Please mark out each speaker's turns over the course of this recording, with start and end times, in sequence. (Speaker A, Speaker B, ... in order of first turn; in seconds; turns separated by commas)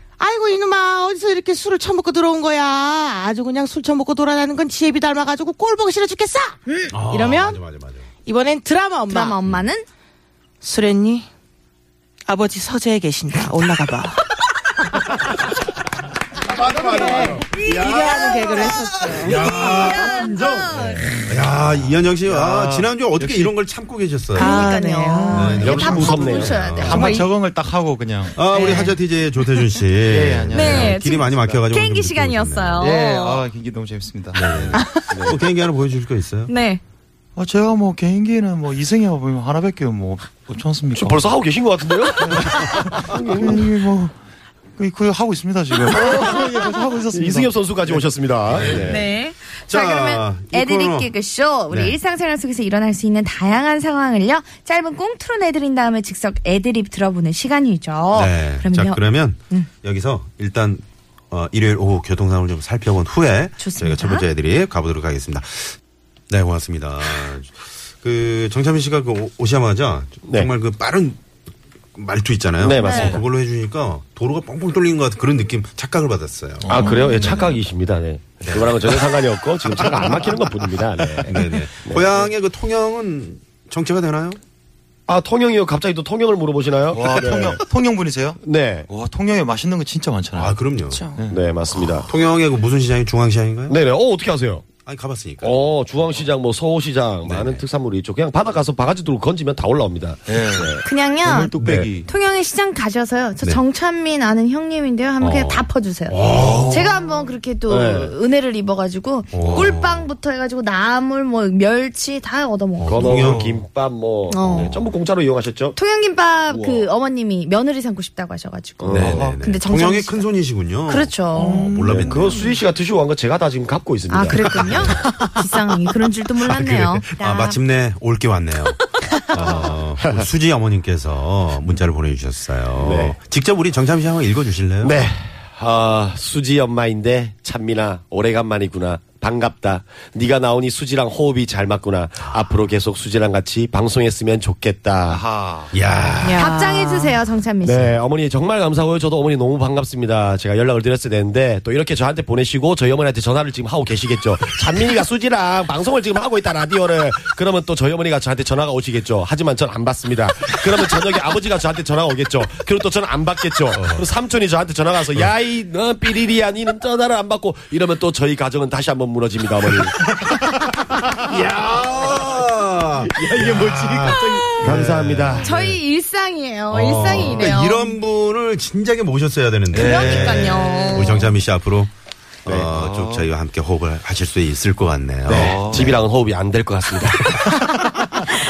Speaker A: 0.2-7.6, Speaker B: 6.7-6.9, Speaker C: 6.9-8.1, Speaker A: 8.2-9.4, Speaker B: 9.1-9.8, Speaker A: 10.6-11.3, Speaker A: 12.3-14.2, Speaker C: 16.4-24.6, Speaker A: 16.7-19.4, Speaker B: 17.6-18.7, Speaker B: 19.4-21.0, Speaker D: 22.2-23.5, Speaker A: 24.3-25.9, Speaker B: 24.4-27.1, Speaker C: 25.3-27.2, Speaker E: 25.6-26.6, Speaker D: 26.8-28.6, Speaker A: 26.9-27.3, Speaker C: 28.3-32.9, Speaker A: 28.5-29.0, Speaker D: 30.0-31.0, Speaker B: 30.5-33.4, Speaker D: 32.8-34.9, Speaker C: 34.3-36.5, Speaker E: 35.1-35.4, Speaker B: 36.5-36.8, Speaker D: 37.4-41.3, Speaker E: 40.9-43.7, Speaker D: 42.2-44.1, Speaker D: 44.8-47.5, Speaker E: 46.0-46.4, Speaker E: 47.1-49.0, Speaker C: 48.5-49.1, Speaker B: 48.9-59.7, Speaker C: 49.7-51.1, Speaker C: 51.7-52.0, Speaker C: 58.1-65.8, Speaker B: 63.6-64.2, Speaker C: 66.3-71.2, Speaker E: 70.2-70.5, Speaker C: 71.9-76.8, Speaker E: 72.6-73.2, Speaker B: 72.8-73.2, Speaker E: 76.7-82.2, Speaker C: 78.4-79.1, Speaker C: 81.2-84.4, Speaker E: 85.1-87.6, Speaker D: 86.9-90.6, Speaker E: 88.4-88.9, Speaker C: 90.3-91.1, Speaker A: 90.9-91.2, Speaker D: 91.2-91.4, Speaker E: 91.3-92.1, Speaker C: 92.0-93.8, Speaker E: 93.7-94.7, Speaker C: 94.8-95.5, Speaker E: 95.4-100.8, Speaker C: 97.2-97.6, Speaker D: 100.3-102.1, Speaker B: 100.8-101.5, Speaker E: 101.6-101.9, Speaker B: 102.0-113.2, Speaker C: 105.2-106.8, Speaker D: 106.2-106.8, Speaker E: 107.7-108.1, Speaker C: 109.3-110.1, Speaker D: 109.4-109.7, Speaker C: 112.8-113.5, Speaker E: 112.8-115.8, Speaker D: 113.1-113.6, Speaker B: 114.3-114.7, Speaker C: 114.5-114.8, Speaker B: 115.8-120.3, Speaker E: 116.5-116.8, Speaker E: 118.8-119.3, Speaker C: 118.9-122.3, Speaker D: 119.0-119.4, Speaker B: 120.9-121.7, Speaker D: 121.3-122.2, Speaker E: 121.9-125.0, Speaker B: 124.1-127.6, Speaker C: 124.7-125.1, Speaker C: 126.4-128.8, Speaker C: 129.3-135.1, Speaker E: 129.4-130.2, Speaker E: 132.8-133.2, Speaker E: 134.8-145.2, Speaker D: 145.1-145.7, Speaker C: 145.7-146.4, Speaker A: 146.2-147.1, Speaker B: 146.3-147.9, Speaker E: 147.6-170.1, Speaker C: 163.7-164.0, Speaker C: 171.2-175.8, Speaker E: 173.1-175.5, Speaker D: 173.4-174.1, Speaker B: 175.4-177.9, Speaker C: 176.7-181.9, Speaker D: 179.7-181.2, Speaker B: 179.7-181.3, Speaker C: 182.4-186.0, Speaker D: 182.5-183.3, Speaker E: 185.2-187.6, Speaker D: 185.3-186.0